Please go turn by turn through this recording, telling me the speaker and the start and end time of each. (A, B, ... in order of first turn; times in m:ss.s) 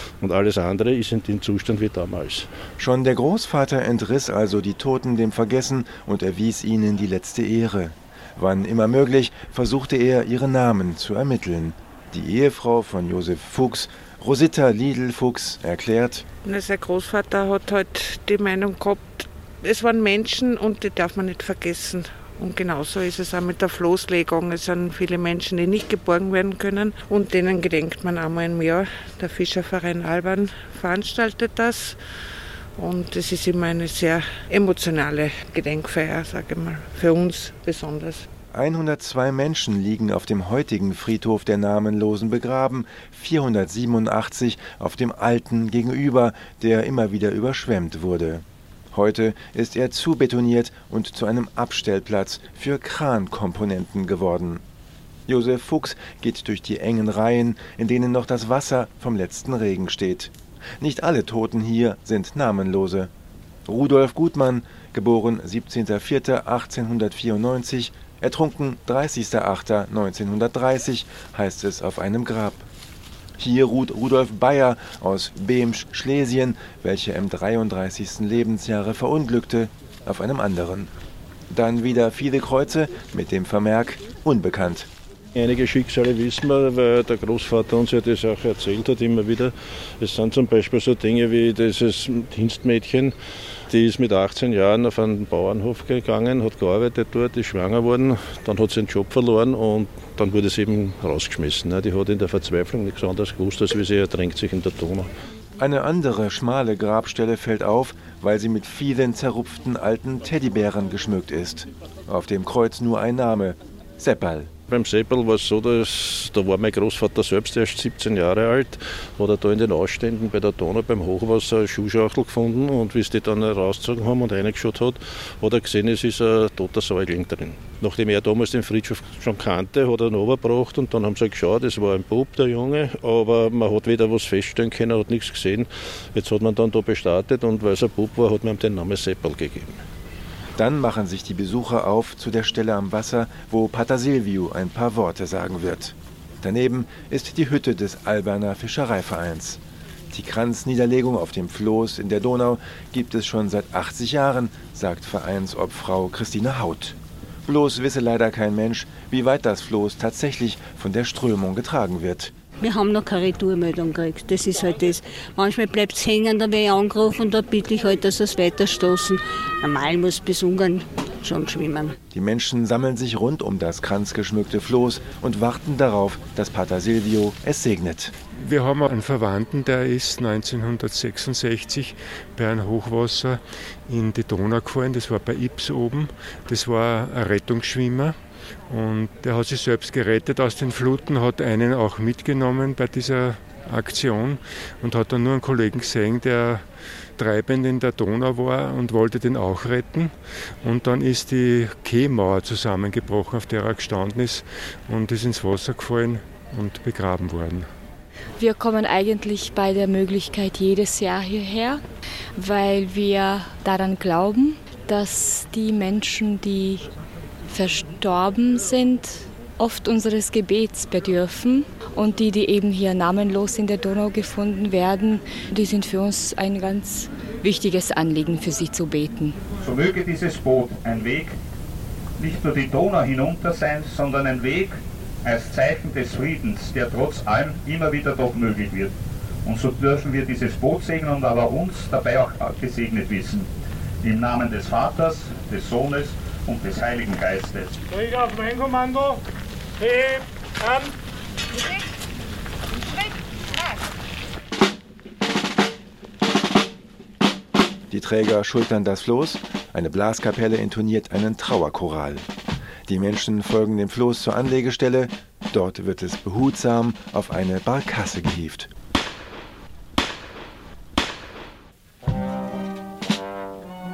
0:00.2-0:02.5 A
0:02.8-0:16.2 B
0:16.5-0:32.0 C
0:32.8-0:38.2 C
0:38.5-0:54.6 B
0:55.3-1:03.1 B
1:03.7-1:12.6 B
1:13.4-1:20.9 B
1:21.5-1:24.9 B
1:25.3-1:33.1 A
1:33.7-1:45.1 A
1:45.6-1:54.5 B
1:54.7-2:19.8 A
2:20.6-2:42.3 B
2:42.6-2:51.9 D
2:52.1-2:58.1 B
2:58.4-3:08.1 E
3:08.7-3:16.6 E
3:17.2-3:20.1 E
3:20.6-3:27.7 E
3:28.4-3:31.8 F
3:32.4-3:36.9 F
3:37.5-3:49.4 F
3:49.6-3:51.3 G
3:52.2-3:58.9 G
3:59.4-4:03.5 G
4:04.0-4:07.8 G
4:07.9-4:09.2 H
4:09.8-4:10.8 H
4:17.9-4:22.3 B
4:22.9-4:28.7 B